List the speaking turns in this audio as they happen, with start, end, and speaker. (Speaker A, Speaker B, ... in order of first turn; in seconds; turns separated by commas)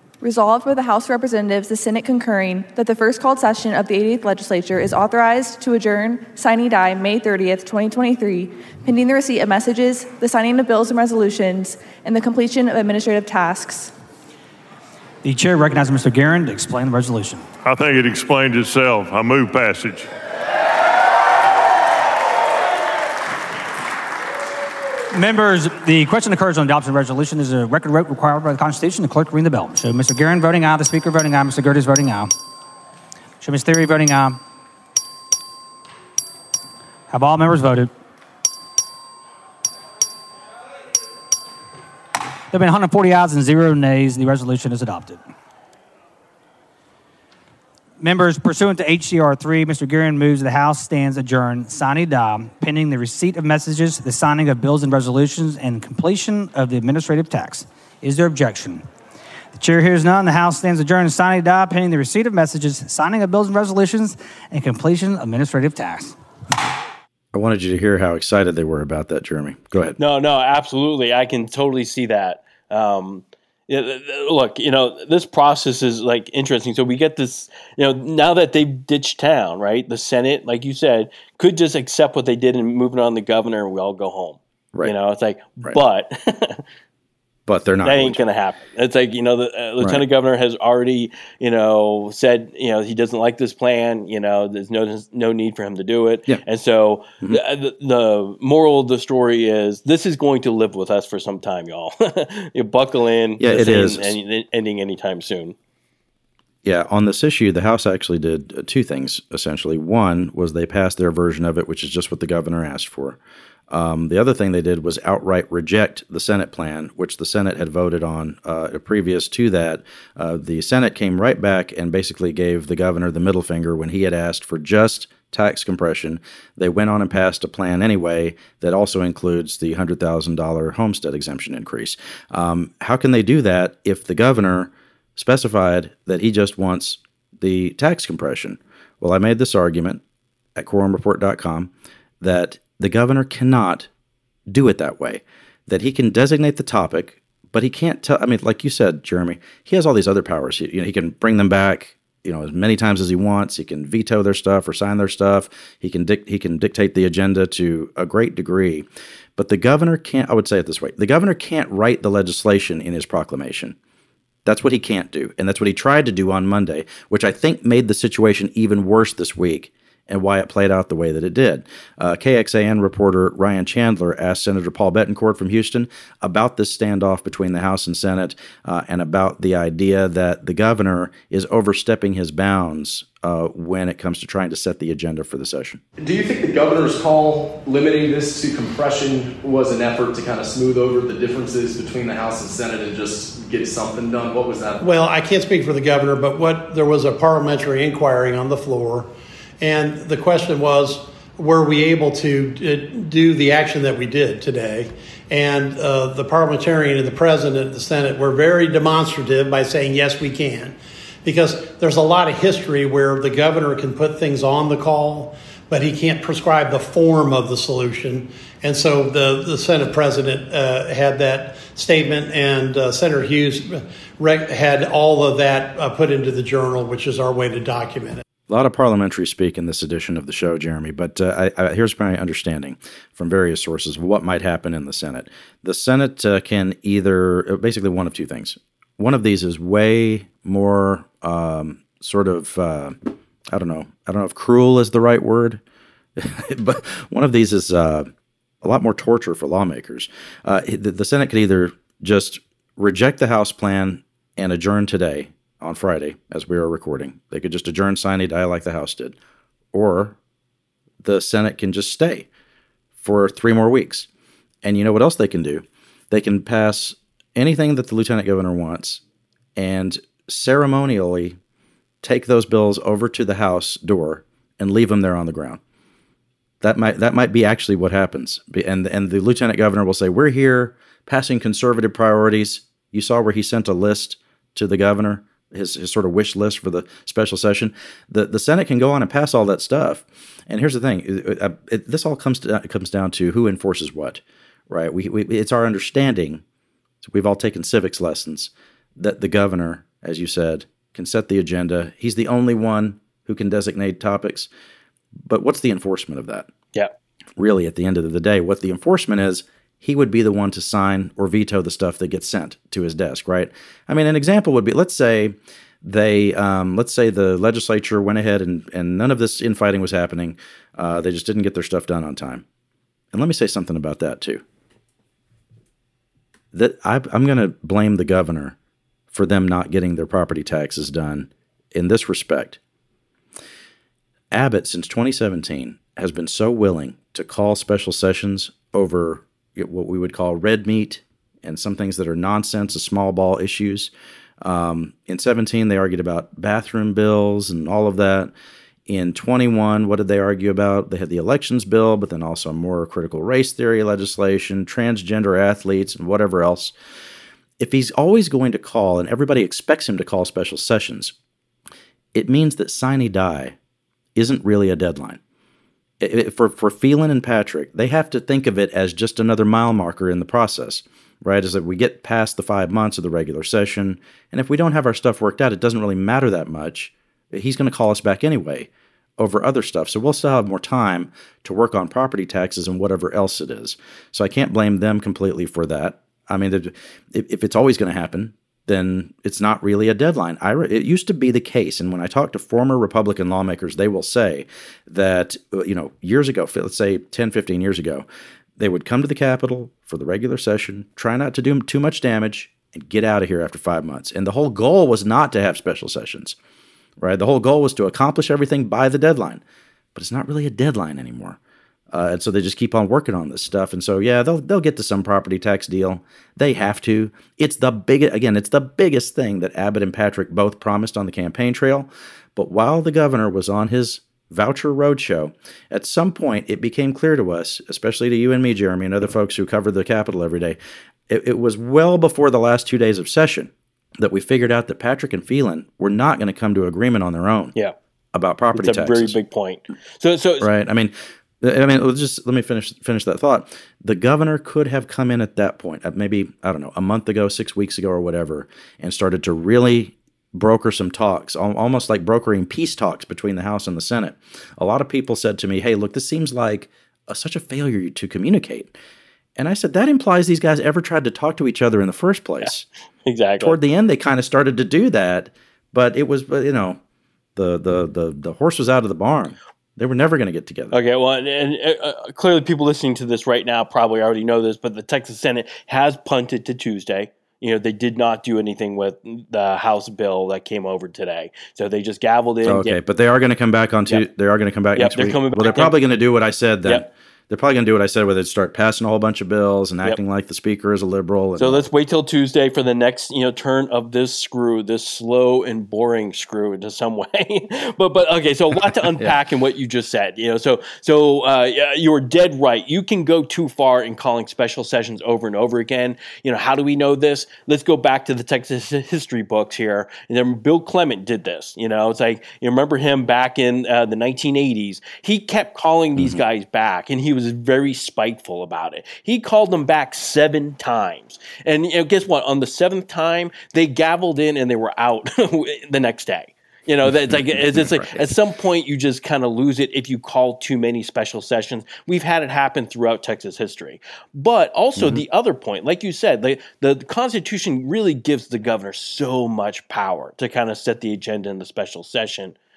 Speaker A: 0.2-13.9, Speaker B: 15.2-17.5, Speaker C: 17.6-20.1, Speaker B: 25.1-32.3, Speaker B: 33.4-34.4, Speaker B: 37.1-37.9, Speaker B: 42.5-45.2, Speaker B: 48.0-58.9, Speaker B: 59.5-66.2, Speaker D: 67.3-70.0, Speaker E: 70.0-86.6, Speaker D: 87.5-88.2, Speaker E: 87.8-105.5, Speaker D: 103.4-104.2, Speaker D: 106.7-113.2, Speaker D: 113.7-140.0, Speaker D: 140.6-143.9, Speaker D: 144.5-163.8, Speaker D: 164.4-185.8, Speaker F: 186.0-194.8, Speaker G: 194.8-228.2, Speaker D: 228.5-245.6, Speaker D: 246.2-248.1, Speaker D: 248.6-259.2, Speaker D: 259.7-260.2, Speaker D: 261.0-262.3, Speaker D: 263.0-264.1, Speaker D: 264.6-269.0, Speaker D: 269.6-271.4, Speaker D: 272.0-275.6, Speaker D: 276.6-296.4, Speaker D: 297.0-304.5, Speaker D: 305.2-306.5, Speaker D: 307.4-322.4, Speaker D: 323.1-324.4, Speaker D: 326.5-328.6, Speaker D: 329.1-332.6, Speaker D: 334.3-348.3, Speaker D: 348.9-356.7, Speaker D: 357.6-361.1, Speaker D: 362.1-363.6, Speaker D: 364.2-365.2, Speaker D: 366.0-398.1, Speaker D: 398.6-406.4, Speaker D: 407.0-409.4, Speaker D: 409.9-411.4, Speaker D: 411.9-430.6, Speaker D: 431.1-437.6, Speaker D: 438.1-439.2, Speaker E: 438.5-440.5, Speaker D: 440.4-458.8, Speaker D: 459.4-462.7, Speaker E: 463.1-463.6, Speaker D: 463.4-466.8, Speaker D: 467.4-470.8, Speaker E: 470.7-482.8, Speaker D: 482.4-491.6, Speaker E: 484.8-485.8, Speaker E: 491.4-542.4, Speaker D: 516.0-516.2, Speaker D: 526.9-528.1, Speaker D: 534.8-535.0